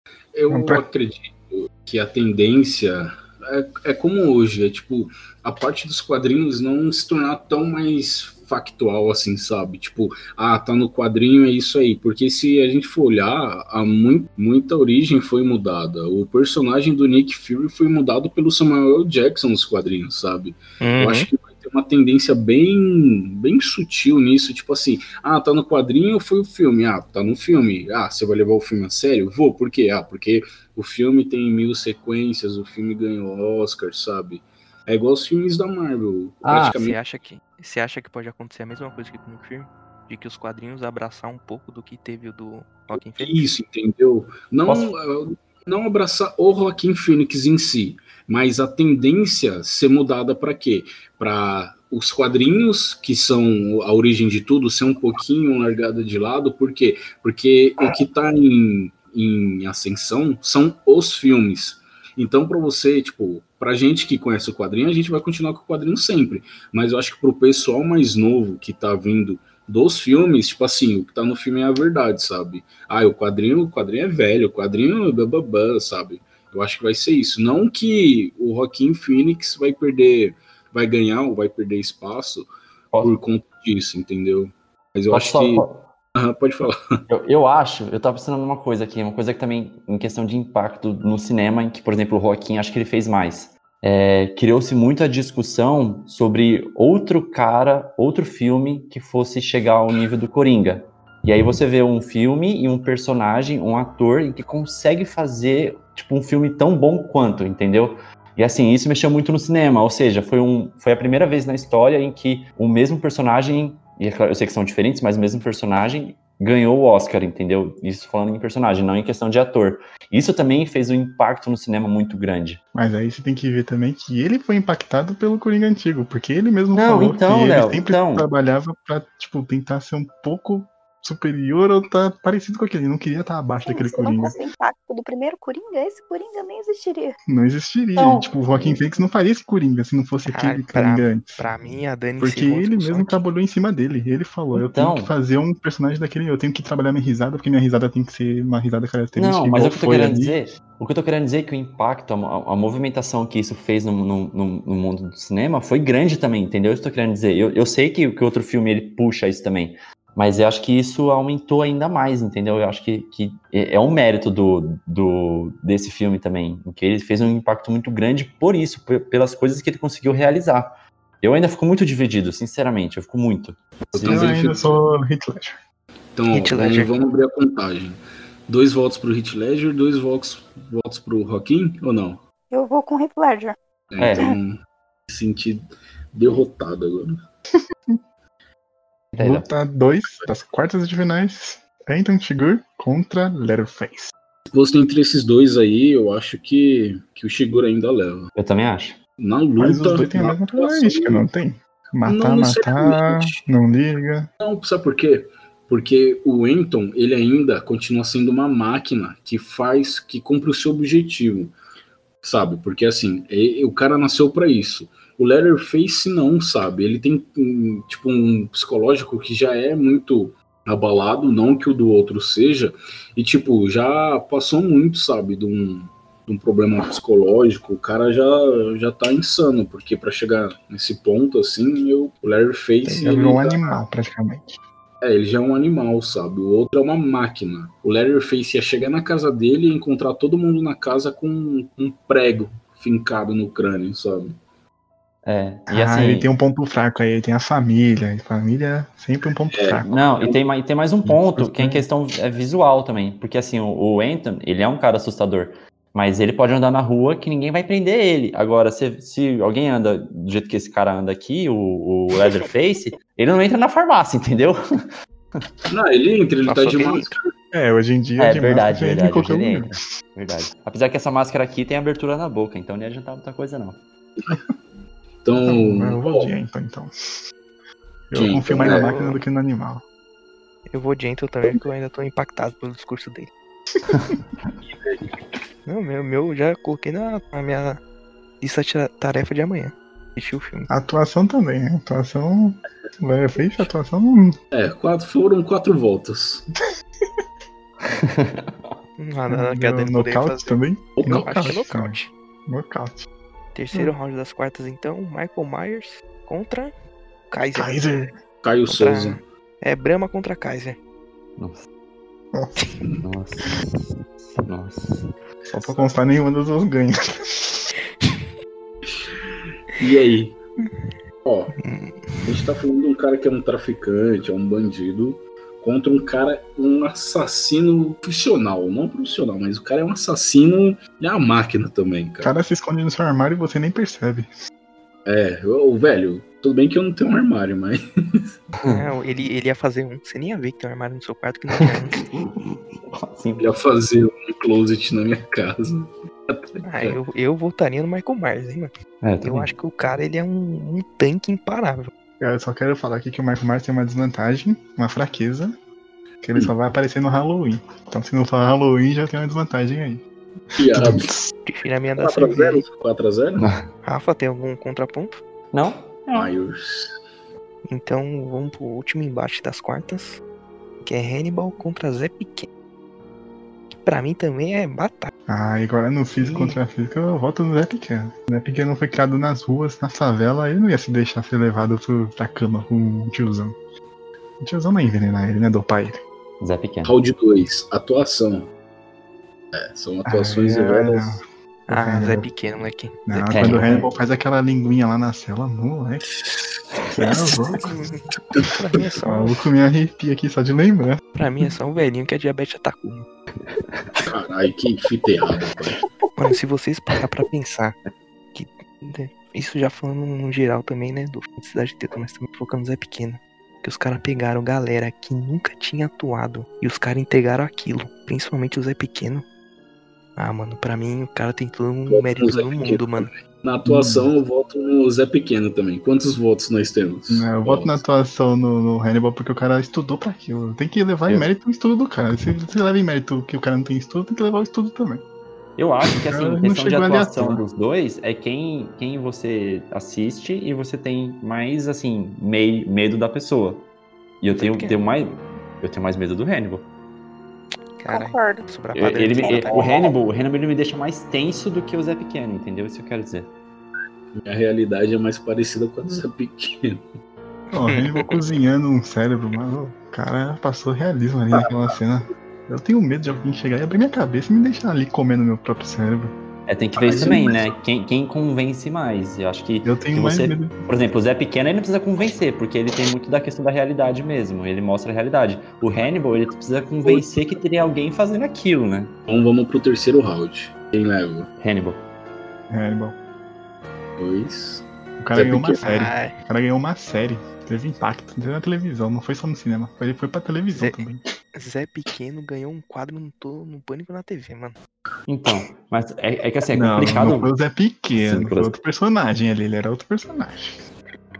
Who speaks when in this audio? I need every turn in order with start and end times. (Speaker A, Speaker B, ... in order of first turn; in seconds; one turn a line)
Speaker A: 0.3-37.0
Speaker B: 0.5-0.8
Speaker C: 20.8-21.3
Speaker D: 36.4-36.8
Speaker C: 36.6-43.4
Speaker A: 43.2-82.5
Speaker D: 44.6-44.9
Speaker A: 83.0-86.8
Speaker D: 85.1-85.9
Speaker D: 87.1-122.6
Speaker B: 122.7-134.3
Speaker D: 126.7-128.3
Speaker E: 133.6-137.2
Speaker B: 137.2-141.4
Speaker D: 137.9-138.8
Speaker C: 140.2-143.2
Speaker B: 142.2-150.4
Speaker D: 144.5-145.1
Speaker D: 149.2-174.4
Speaker A: 173.9-174.7
Speaker B: 174.0-175.6
Speaker A: 176.1-182.2
Speaker C: 176.3-176.9
Speaker E: 182.5-183.6
Speaker A: 183.9-187.2
Speaker D: 184.0-184.3
Speaker D: 189.1-189.5
Speaker B: 189.2-194.1
Speaker A: 194.5-198.3
Speaker D: 198.3-199.0
Speaker A: 199.2-201.2
Speaker B: 199.6-204.3
Speaker A: 202.0-203.4
Speaker A: 204.4-211.5
Speaker A: 212.2-233.6
Speaker B: 232.9-234.6
Speaker A: 235.0-244.3
Speaker D: 245.2-246.3
Speaker B: 245.7-249.9
Speaker A: 249.5-250.4
Speaker D: 249.8-264.6
Speaker B: 251.1-251.8
Speaker A: 265.7-267.2
Speaker C: 266.5-267.1
Speaker B: 267.5-269.8
Speaker D: 268.2-273.8
Speaker A: 274.2-274.4
Speaker A: 275.2-276.3
Speaker B: 275.4-276.9
Speaker B: 278.1-279.8
Speaker A: 278.1-279.0
Speaker C: 278.6-279.2
Speaker C: 280.7-283.3
Speaker A: 284.7-285.0
Speaker C: 285.6-287.8
Speaker C: 288.4-290.7
Speaker B: 290.7-294.3
Speaker A: 294.5-296.4
Speaker D: 297.9-298.8
Speaker C: 299.0-302.1
Speaker B: 299.3-303.1
Speaker A: 300.9-301.5
Speaker C: 303.5-306.7
Speaker C: 307.3-307.8
Speaker B: 307.5-308.1
Speaker A: 308.4-309.2
Speaker C: 308.7-310.8
Speaker D: 311.4-311.6
Speaker B: 312.3-312.6
Speaker D: 313.0-313.6
Speaker D: 314.2-315.1
Speaker B: 315.5-317.6
Speaker A: 318.9-320.4
Speaker C: 320.6-320.9
Speaker A: 321.2-321.5
Speaker C: 321.6-322.4
Speaker A: 322.2-332.3
Speaker B: 332.2-334.3
Speaker A: 335.1-338.3
Speaker C: 338.7-342.0
Speaker D: 341.6-343.5
Speaker A: 343.4-347.0
Speaker C: 346.6-351.9
Speaker D: 349.0-349.5
Speaker B: 352.2-355.5
Speaker B: 356.2-360.0
Speaker A: 360.6-361.1
Speaker B: 360.7-361.3
Speaker C: 361.5-362.6
Speaker A: 362.0-363.5
Speaker C: 363.8-365.2
Speaker D: 365.5-366.3
Speaker A: 366.1-366.9
Speaker C: 367.7-370.2
Speaker C: 370.8-372.5
Speaker C: 373.8-375.1
Speaker B: 375.3-383.6
Speaker C: 376.2-376.6
Speaker B: 384.4-386.0
Speaker D: 386.4-386.9
Speaker A: 386.8-388.5
Speaker A: 389.5-391.2
Speaker B: 390.1-392.3
Speaker C: 391.7-393.6
Speaker B: 393.1-396.1
Speaker D: 393.3-393.9
Speaker B: 396.9-397.7
Speaker C: 397.6-399.4
Speaker B: 399.0-401.0
Speaker C: 401.1-403.1
Speaker D: 403.5-403.9
Speaker A: 404.0-405.8
Speaker C: 406.1-407.8
Speaker C: 408.3-419.2
Speaker C: 420.2-423.1
Speaker A: 421.9-427.8
Speaker B: 423.6-424.1
Speaker B: 427.1-435.0
Speaker D: 435.6-443.7
Speaker B: 436.1-437.4
Speaker D: 444.2-446.7
Speaker C: 444.3-444.8
Speaker C: 447.8-449.7
Speaker E: 447.9-448.4
Speaker D: 448.7-453.3
Speaker E: 449.2-449.9
Speaker A: 454.1-456.9
Speaker C: 457.5-458.2
Speaker B: 457.5-466.1
Speaker D: 466.5-478.9
Speaker A: 466.8-467.5
Speaker B: 469.6-470.5
Speaker A: 476.8-477.3
Speaker A: 479.1-481.3
Speaker D: 481.4-481.8
Speaker B: 482.5-482.9
Speaker A: 484.0-485.6
Speaker B: 485.0-491.0
Speaker C: 485.6-486.1
Speaker C: 490.5-490.8
Speaker C: 491.3-494.6
Speaker D: 495.1-497.3
Speaker B: 496.5-500.6
Speaker D: 497.9-498.6